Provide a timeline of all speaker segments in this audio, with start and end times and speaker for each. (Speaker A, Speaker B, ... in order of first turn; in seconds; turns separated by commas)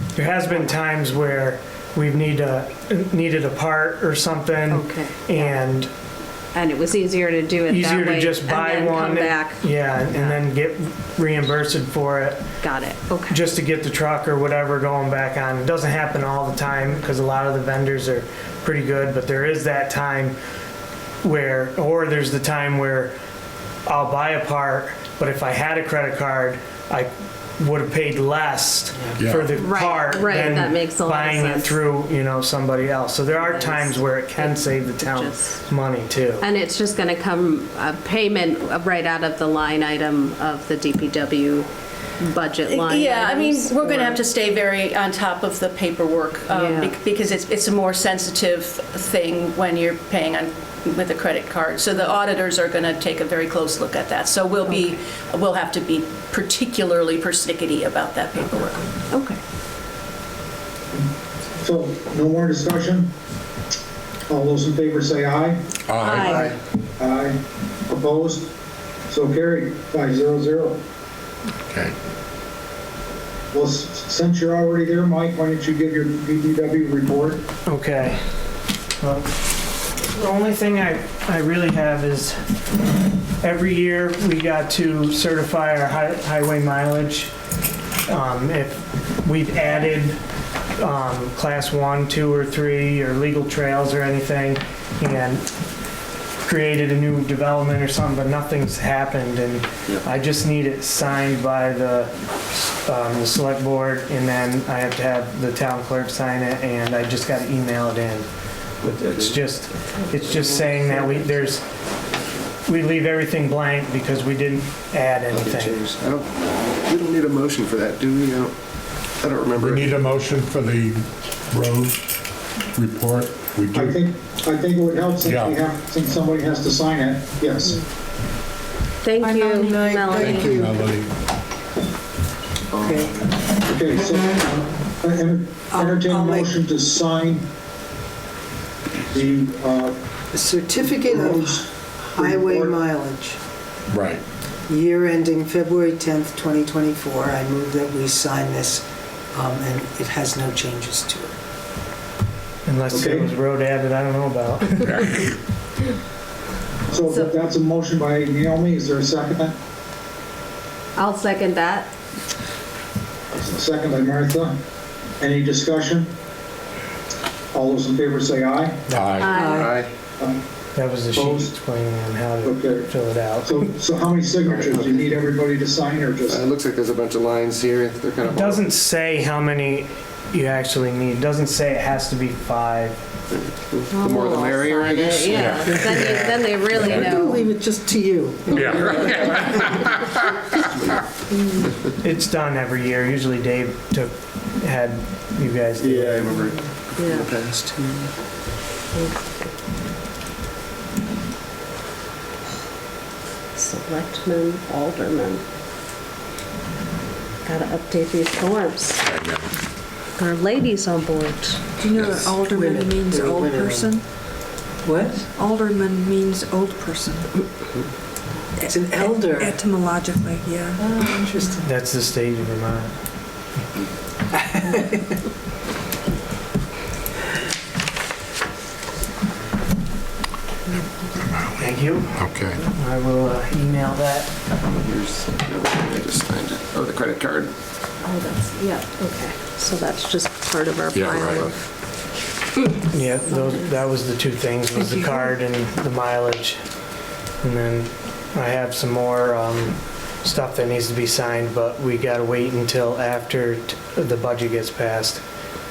Speaker A: 0.1-5.9, Speaker B: 0.5-0.8, Speaker B: 4.7-5.6, Speaker B: 6.5-10.4, Speaker A: 7.7-12.4, Speaker B: 12.6-13.4, Speaker A: 13.3-20.4, Speaker A: 21.2-23.1, Speaker A: 23.9-36.5, Speaker C: 29.2-29.5, Speaker B: 29.5-31.8, Speaker B: 33.4-35.6, Speaker B: 36.4-44.2, Speaker D: 42.7-58.8, Speaker B: 46.5-46.9, Speaker B: 54.7-54.9, Speaker B: 59.1-59.4, Speaker E: 61.6-63.1, Speaker E: 64.3-65.6, Speaker C: 65.9-66.5, Speaker B: 66.0-66.5, Speaker F: 66.2-66.6, Speaker E: 67.0-68.5, Speaker E: 69.1-70.8, Speaker C: 71.7-71.9, Speaker E: 73.5-77.4, Speaker A: 77.7-78.2, Speaker A: 79.0-79.3, Speaker A: 80.1-82.4, Speaker A: 83.4-87.3, Speaker A: 88.1-90.2, Speaker A: 90.8-95.5, Speaker A: 96.4-108.3, Speaker F: 108.8-109.4, Speaker A: 108.8-111.7, Speaker F: 110.3-111.2, Speaker A: 112.7-115.8, Speaker F: 115.3-118.6, Speaker F: 119.1-120.0, Speaker C: 119.6-122.0, Speaker C: 122.7-124.0, Speaker E: 123.7-127.8, Speaker C: 125.2-125.6, Speaker B: 129.0-130.6, Speaker G: 129.2-130.7, Speaker H: 129.8-130.7, Speaker C: 130.2-131.1, Speaker F: 132.7-133.2, Speaker H: 132.8-133.1, Speaker E: 133.6-137.5, Speaker H: 135.7-136.5, Speaker E: 139.1-140.0, Speaker H: 140.3-141.6, Speaker E: 141.1-142.8, Speaker H: 142.2-143.4, Speaker C: 143.9-144.2, Speaker H: 144.7-151.4, Speaker A: 152.7-155.2, Speaker E: 152.9-153.3, Speaker E: 156.9-159.6, Speaker B: 161.0-161.9, Speaker E: 163.4-164.6, Speaker E: 165.2-166.1, Speaker E: 167.5-168.9, Speaker A: 168.9-169.2, Speaker C: 168.9-169.3, Speaker B: 169.2-169.7, Speaker F: 169.2-169.9, Speaker G: 169.3-169.8, Speaker A: 170.8-173.7, Speaker E: 171.1-171.5, Speaker E: 172.4-172.9, Speaker E: 173.4-176.4, Speaker F: 174.4-175.3, Speaker F: 176.3-178.7, Speaker A: 178.3-183.0, Speaker F: 183.3-186.3, Speaker B: 183.9-187.5, Speaker C: 185.4-185.9, Speaker A: 185.9-186.4, Speaker H: 186.8-188.9, Speaker F: 188.6-189.9, Speaker C: 188.6-190.0, Speaker F: 190.6-191.0, Speaker B: 191.3-191.7, Speaker A: 192.0-196.3, Speaker F: 195.8-198.1, Speaker B: 197.0-197.3, Speaker B: 198.9-199.5, Speaker B: 203.6-205.4, Speaker B: 207.4-209.1, Speaker C: 209.1-209.5, Speaker B: 210.2-211.6, Speaker G: 211.8-214.0, Speaker H: 212.5-213.9, Speaker H: 214.8-215.3, Speaker G: 215.2-217.3, Speaker G: 218.6-221.3, Speaker H: 218.7-219.5, Speaker H: 220.8-221.5, Speaker A: 221.6-222.9, Speaker H: 224.3-225.1, Speaker C: 231.2-232.6, Speaker A: 231.6-234.3, Speaker F: 234.7-237.5, Speaker B: 238.0-241.7, Speaker C: 240.9-241.5, Speaker A: 242.9-246.6, Speaker B: 243.2-243.7, Speaker A: 247.4-255.2